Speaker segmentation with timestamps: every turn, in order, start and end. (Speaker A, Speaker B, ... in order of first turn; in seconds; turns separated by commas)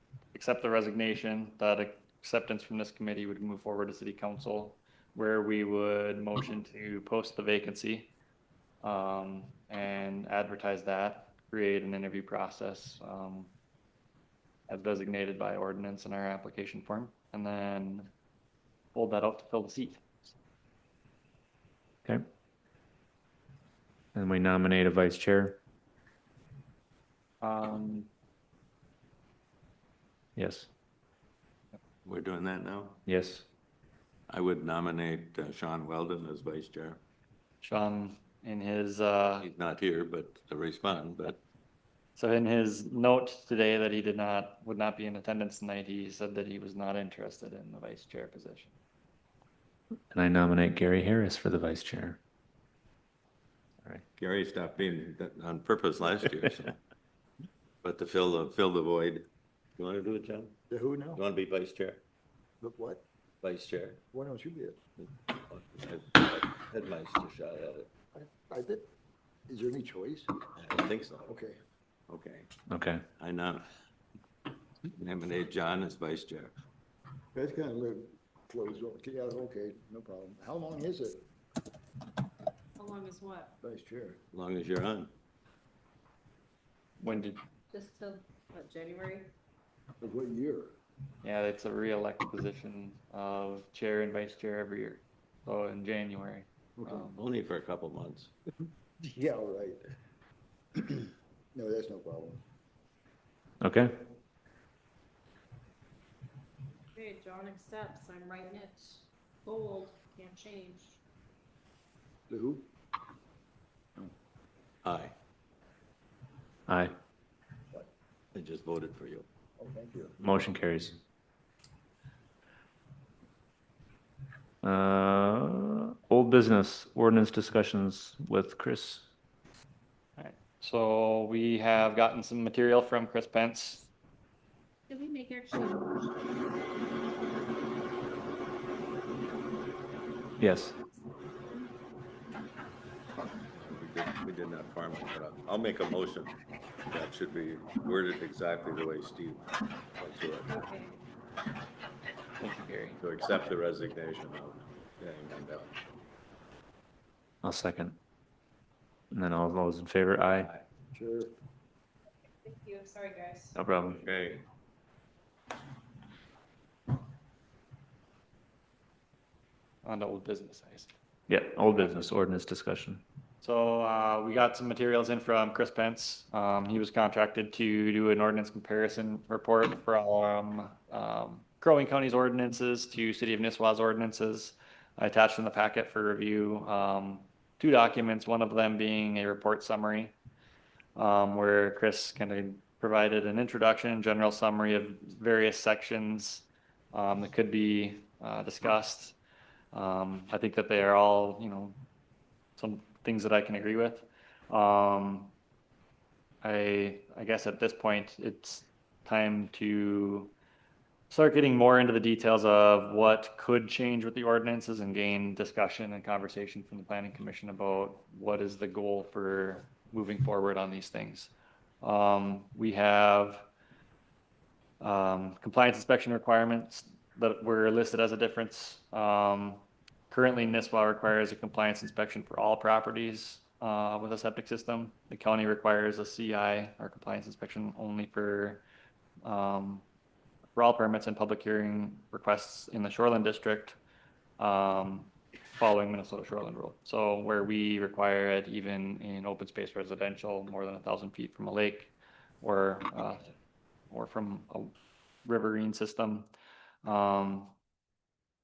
Speaker A: 0.3-8.1, Speaker A: 8.8-13.5, Speaker A: 14.7-18.1, Speaker A: 18.9-20.1, Speaker B: 24.1-25.6, Speaker A: 27.4-28.1, Speaker B: 30.4-30.7, Speaker C: 32.0-33.0, Speaker B: 33.1-33.5, Speaker C: 34.3-37.0, Speaker A: 37.6-39.5, Speaker C: 39.4-41.4, Speaker A: 42.2-48.8, Speaker B: 50.1-52.2, Speaker C: 54.2-56.8, Speaker C: 57.8-60.6, Speaker D: 60.7-61.2, Speaker C: 61.1-62.0, Speaker D: 62.6-63.0, Speaker C: 63.4-64.0, Speaker D: 64.1-64.8, Speaker C: 65.0-67.9, Speaker D: 68.1-68.9, Speaker D: 69.5-70.3, Speaker C: 70.5-71.3, Speaker D: 71.2-71.6, Speaker C: 72.1-72.5, Speaker B: 72.7-73.1, Speaker C: 73.2-73.7, Speaker C: 74.9-76.5, Speaker D: 77.3-81.3, Speaker E: 82.8-83.6, Speaker D: 83.6-84.2, Speaker C: 84.3-85.1, Speaker A: 87.0-87.4, Speaker E: 87.7-89.3, Speaker D: 90.0-90.8, Speaker A: 91.2-97.2, Speaker D: 96.8-97.1, Speaker C: 97.1-98.3, Speaker D: 99.0-99.9, Speaker D: 100.8-102.4, Speaker B: 103.6-103.9, Speaker E: 106.9-111.0, Speaker D: 112.3-112.7, Speaker C: 114.8-115.1, Speaker B: 116.7-117.0, Speaker C: 118.3-119.3, Speaker D: 119.6-120.2, Speaker B: 120.2-121.0, Speaker B: 124.6-129.1, Speaker A: 130.2-133.9, Speaker E: 134.9-136.2, Speaker B: 140.4-140.8, Speaker E: 140.9-141.7, Speaker C: 143.5-146.3, Speaker C: 146.9-150.5, Speaker E: 150.5-151.0, Speaker A: 152.4-153.0, Speaker C: 153.0-155.8, Speaker B: 157.4-158.0, Speaker B: 159.1-160.5, Speaker D: 160.9-161.3, Speaker E: 162.2-163.6, Speaker B: 163.6-164.0, Speaker C: 163.9-164.5, Speaker A: 169.8-170.9, Speaker B: 171.3-173.0, Speaker A: 171.7-172.1, Speaker A: 173.4-190.1, Speaker A: 191.0-199.2, Speaker A: 199.7-201.8, Speaker A: 202.6-205.3, Speaker A: 206.4-210.3, Speaker A: 211.1-223.5, Speaker A: 224.8-238.6, Speaker A: 239.2-239.8, Speaker A: 240.6-243.8, Speaker A: 244.4-253.3, Speaker A: 253.9-256.3, Speaker A: 256.9-257.5